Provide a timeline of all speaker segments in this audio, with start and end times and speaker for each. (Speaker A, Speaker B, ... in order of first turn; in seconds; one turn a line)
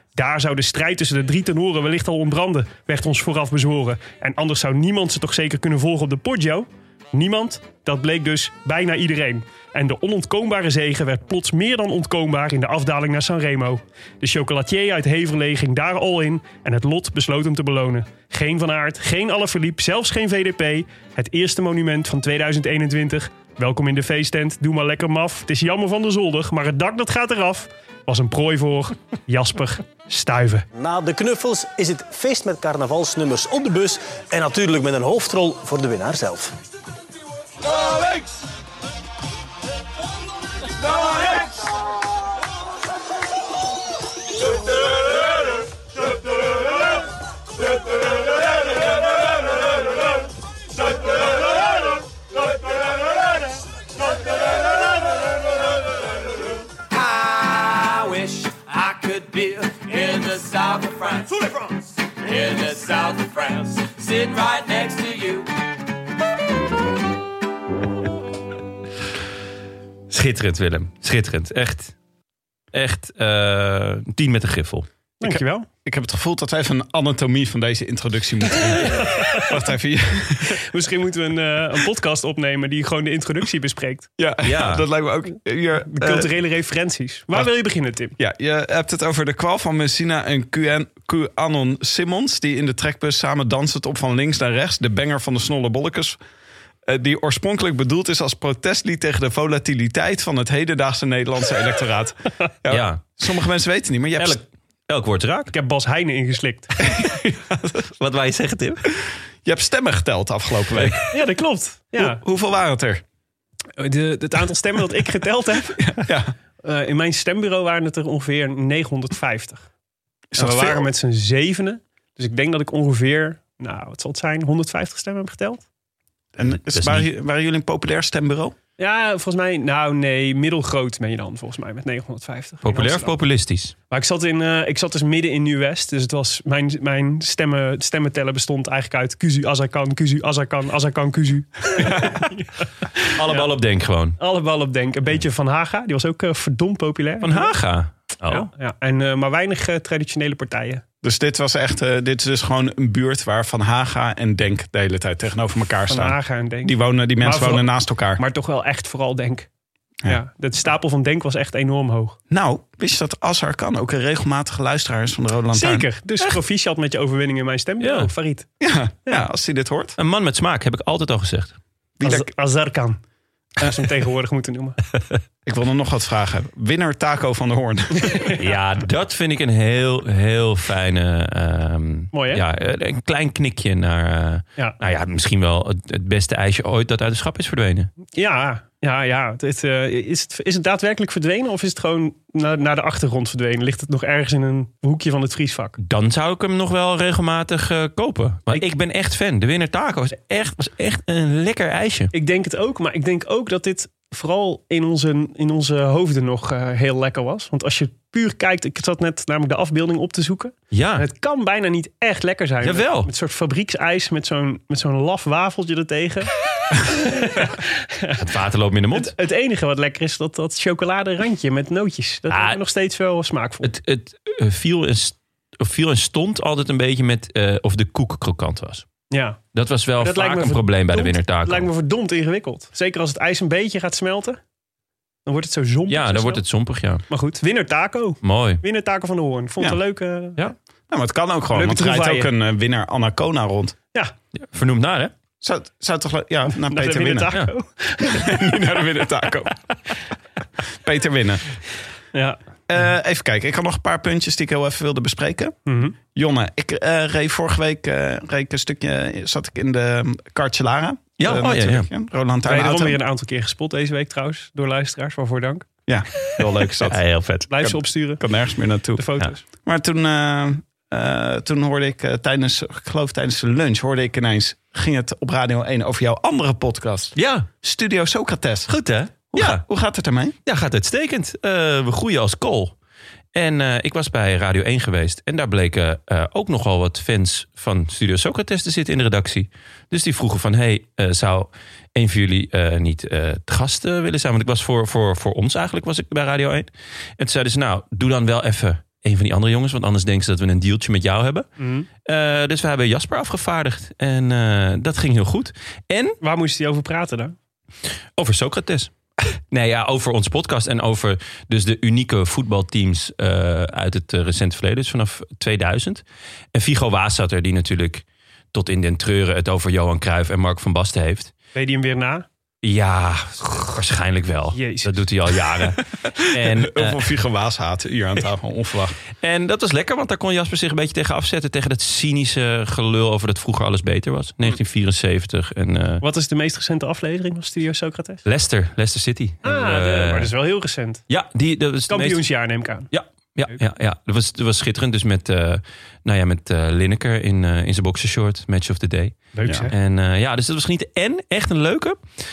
Speaker A: 0.1-30.7
Speaker B: 30.7-36.6
Speaker C: 56.9-65.5
Speaker D: 70.1-71.9
Speaker D: 72.7-74.9
Speaker A: 75.2-75.7
Speaker E: 75.8-80.6
Speaker A: 78.7-79.5
Speaker A: 80.6-84.1
Speaker E: 84.2-86.3
Speaker D: 84.4-84.9
Speaker A: 85.9-88.2
Speaker E: 88.2-96.2
Speaker E: 96.8-104.4
Speaker D: 102.7-103.0
Speaker D: 104.2-105.5
Speaker A: 105.5-106.7
Speaker E: 106.8-107.8
Speaker D: 108.0-108.8
Speaker E: 109.4-111.1
Speaker A: 111.1-112.2
Speaker E: 112.0-113.0
Speaker A: 113.8-115.8
Speaker E: 115.8-116.3
Speaker A: 116.6-119.7
Speaker E: 120.3-120.9
Speaker A: 120.4-125.6
Speaker E: 126.4-128.6
Speaker D: 126.7-127.1
Speaker A: 128.8-133.1
Speaker D: 132.6-133.8
Speaker A: 133.9-142.5
Speaker A: 143.0-143.5
Speaker D: 143.0-144.2
Speaker A: 144.2-147.6
Speaker D: 147.2-148.5
Speaker A: 148.3-150.8
Speaker E: 151.0-158.2
Speaker A: 155.9-159.5
Speaker A: 160.1-162.2
Speaker E: 162.3-165.9
Speaker A: 165.5-168.5
Speaker D: 167.8-168.1
Speaker E: 168.6-170.0
Speaker D: 170.0-171.6
Speaker E: 172.0-172.3
Speaker A: 172.0-173.0
Speaker A: 173.6-174.8
Speaker E: 175.4-178.3
Speaker A: 178.0-178.4
Speaker D: 178.4-187.9
Speaker A: 182.1-182.4
Speaker A: 188.1-195.8
Speaker D: 195.8-202.1
Speaker A: 202.1-218.2
Speaker D: 210.7-211.1
Speaker D: 212.6-213.1
Speaker D: 218.2-219.1
Speaker A: 218.9-223.7
Speaker D: 222.3-222.6
Speaker D: 223.6-228.9
Speaker A: 229.1-229.4
Speaker D: 229.5-231.7
Speaker A: 230.0-234.4
Speaker A: 235.3-236.4
Speaker D: 235.9-237.0
Speaker A: 237.1-240.4
Speaker D: 238.2-238.6
Speaker E: 240.9-243.8
Speaker A: 241.5-242.3
Speaker D: 244.4-245.1
Speaker E: 245.4-247.3
Speaker A: 246.5-248.6
Speaker E: 248.0-249.6
Speaker E: 250.8-251.5
Speaker A: 252.1-252.4
Speaker E: 252.7-255.6
Speaker A: 255.7-256.0
Speaker E: 256.1-263.0
Speaker D: 261.2-261.9
Speaker A: 262.5-265.7
Speaker E: 265.9-267.0
Speaker D: 266.8-267.5
Speaker A: 267.5-268.2
Speaker E: 267.6-278.7
Speaker A: 268.9-269.4
Speaker D: 277.2-277.5
Speaker D: 278.7-279.6
Speaker E: 279.3-280.3
Speaker D: 280.5-282.7
Speaker D: 283.4-301.5
Speaker A: 301.6-301.9
Speaker D: 302.0-306.2
Speaker A: 306.2-307.4
Speaker D: 308.2-321.3
Speaker A: 321.6-322.3
Speaker D: 322.6-327.0
Speaker A: 324.5-325.0
Speaker E: 326.1-329.0
Speaker D: 329.2-336.0
Speaker A: 336.0-338.2
Speaker D: 338.2-340.3
Speaker A: 339.4-341.0
Speaker D: 341.1-342.2
Speaker A: 341.9-342.9
Speaker D: 342.9-352.0
Speaker A: 349.4-349.7